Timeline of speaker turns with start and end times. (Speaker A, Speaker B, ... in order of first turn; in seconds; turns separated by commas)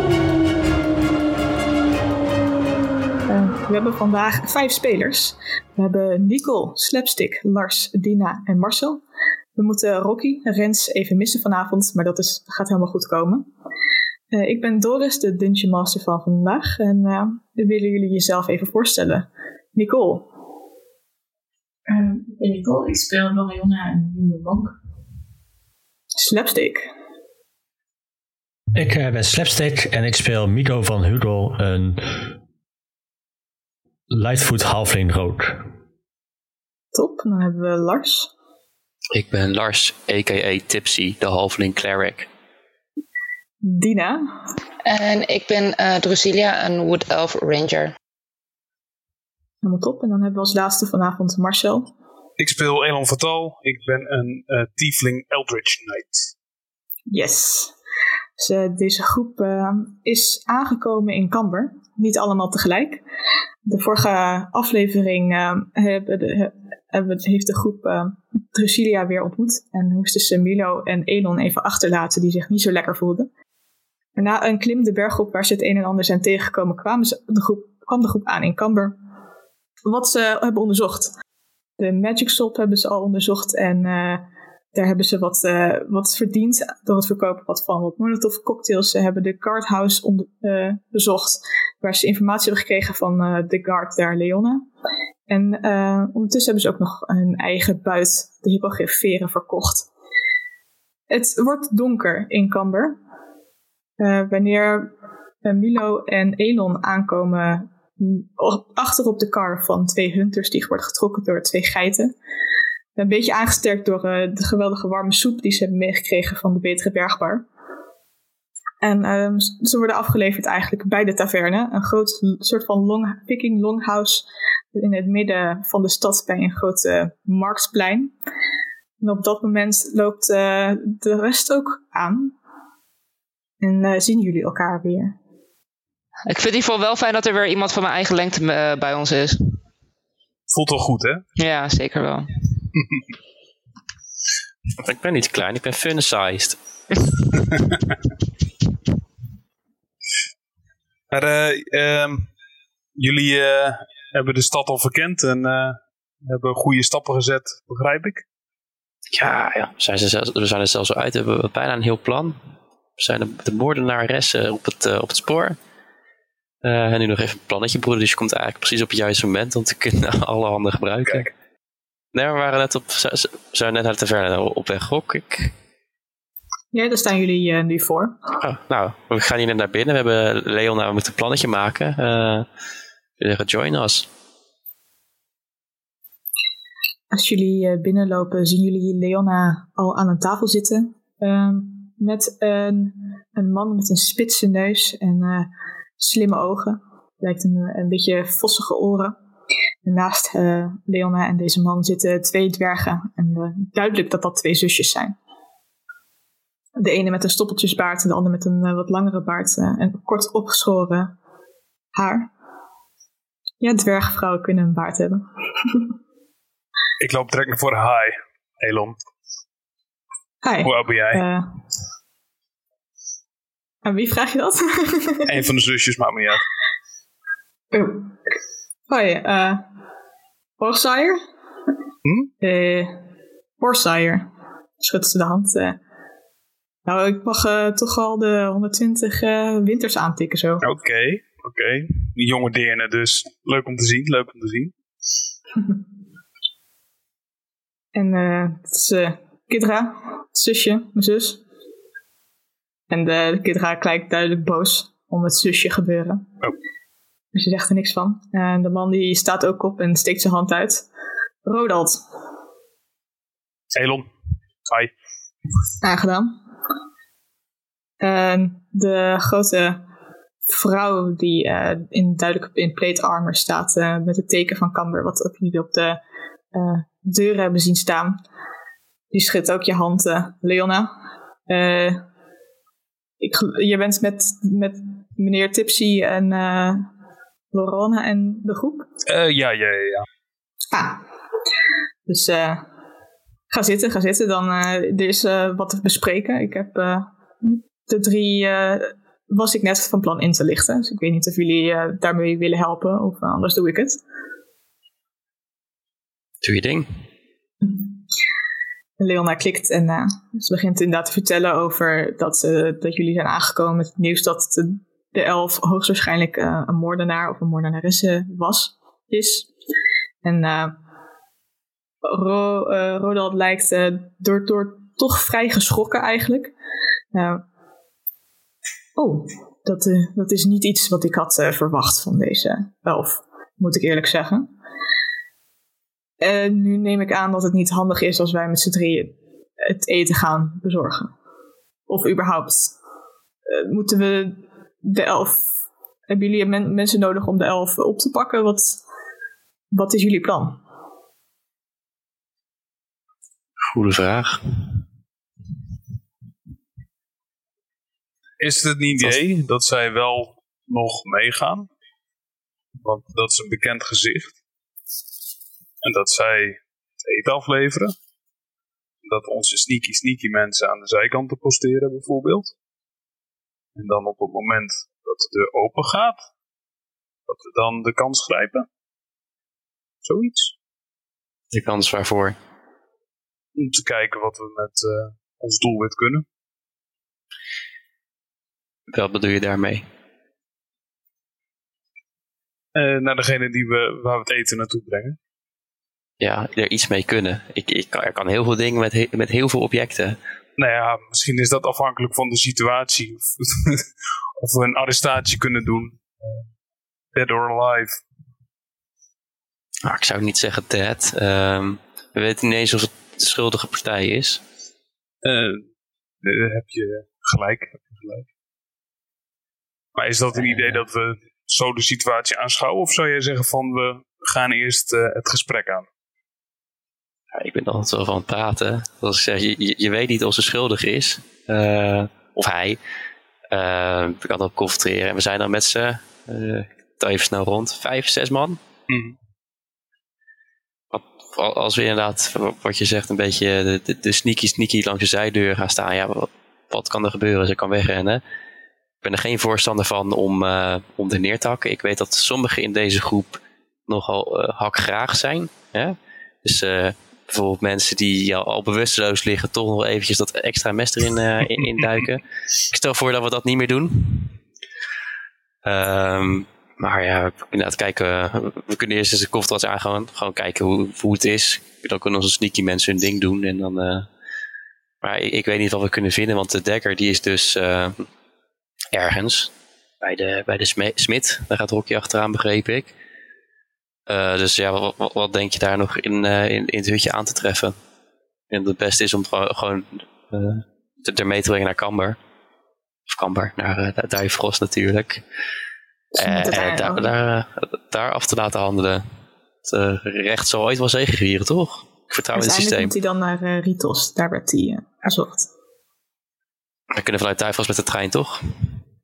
Speaker A: 3.3-9.0, Speaker A: 9.6-13.5, Speaker A: 14.3-20.3, Speaker B: 21.9-24.8, Speaker A: 26.2-26.9, Speaker C: 28.7-32.3, Speaker C: 34.1-35.6, Speaker A: 36.9-38.3, Speaker D: 39.1-42.3, Speaker A: 43.6-44.2, Speaker E: 44.8-47.9, Speaker A: 49.6-51.9, Speaker F: 52.4-56.3, Speaker A: 57.1-57.7, Speaker A: 58.4-63.0, Speaker A: 63.6-73.3, Speaker A: 74.2-79.0, Speaker A: 79.8-81.1, Speaker A: 81.8-94.7, Speaker A: 95.3-99.9, Speaker A: 101.1-103.0, Speaker A: 104.0-112.1, Speaker A: 113.0-117.5, Speaker A: 118.8-128.1, Speaker A: 129.0-132.3, Speaker A: 133.6-135.2, Speaker E: 136.3-139.6, Speaker F: 140.5-141.2, Speaker E: 141.4-142.3, Speaker F: 142.7-143.0, Speaker D: 144.8-146.6, Speaker F: 151.1-152.3, Speaker F: 153.0-158.2, Speaker D: 159.1-162.4, Speaker D: 163.0-165.6, Speaker D: 166.6-171.3, Speaker D: 172.1-175.5, Speaker A: 176.7-178.2, Speaker D: 178.4-182.5, Speaker D: 183.2-184.1, Speaker A: 187.1-199.2, Speaker A: 199.8-205.2, Speaker A: 206.8-211.1, Speaker A: 211.9-212.3, Speaker A: 213.6-215.9, Speaker F: 217.0-219.0, Speaker A: 220.4-221.4, Speaker F: 220.6-221.2, Speaker A: 223.8-225.3, Speaker F: 225.2-226.4, Speaker A: 227.7-228.2, Speaker A: 228.9-229.6, Speaker A: 230.6-231.2, Speaker F: 232.0-232.3, Speaker A: 232.4-233.0, Speaker A: 233.6-234.3, Speaker A: 234.8-235.8, Speaker A: 236.8-240.6, Speaker F: 240.6-244.7, Speaker A: 247.9-251.4, Speaker A: 252.9-256.3, Speaker A: 257.3-260.9, Speaker A: 261.4-262.0, Speaker F: 263.7-264.1, Speaker F: 264.7-264.9, Speaker A: 265.8-266.4, Speaker A: 268.0-269.8, Speaker A: 270.5-276.0, Speaker A: 276.5-278.2, Speaker A: 279.1-280.9, Speaker A: 281.5-282.0, Speaker A: 283.2-286.9, Speaker A: 287.5-288.9, Speaker F: 289.1-290.1, Speaker A: 290.7-291.0, Speaker A: 292.1-292.6, Speaker A: 293.5-304.0, Speaker D: 306.4-306.9, Speaker A: 309.0-319.5, Speaker A: 320.2-320.8, Speaker A: 322.0-326.5, Speaker A: 327.1-327.4, Speaker A: 328.9-334.5, Speaker A: 336.2-341.1, Speaker A: 341.9-342.7, Speaker A: 343.5-345.5, Speaker A: 346.1-348.8, Speaker A: 349.7-350.6, Speaker D: 353.7-354.8, Speaker F: 358.4-361.7, Speaker F: 362.8-364.3, Speaker F: 365.8-367.9, Speaker F: 369.0-372.5, Speaker F: 373.8-376.2, Speaker F: 377.3-378.7, Speaker F: 380.0-380.5, Speaker D: 381.5-382.4, Speaker F: 383.6-386.2, Speaker D: 388.9-389.9, Speaker F: 392.7-395.2, Speaker D: 396.2-400.2, Speaker F: 400.6-403.9, Speaker F: 404.4-406.5, Speaker F: 407.1-408.0, Speaker D: 409.8-414.4, Speaker F: 415.2-415.7, Speaker F: 416.2-418.3, Speaker F: 419.9-425.9, Speaker D: 420.3-420.8, Speaker D: 427.3-432.8, Speaker D: 433.5-438.6, Speaker F: 438.9-439.1, Speaker D: 440.9-448.2, Speaker D: 449.0-464.4, Speaker D: 465.6-474.1, Speaker D: 475.0-478.1, Speaker D: 478.9-479.5, Speaker D: 480.0-482.9, Speaker D: 484.1-487.8, Speaker D: 488.5-492.2, Speaker D: 493.1-495.2, Speaker A: 496.1-497.1, Speaker D: 496.2-499.0, Speaker D: 499.6-502.9, Speaker A: 502.3-505.5, Speaker D: 506.9-508.4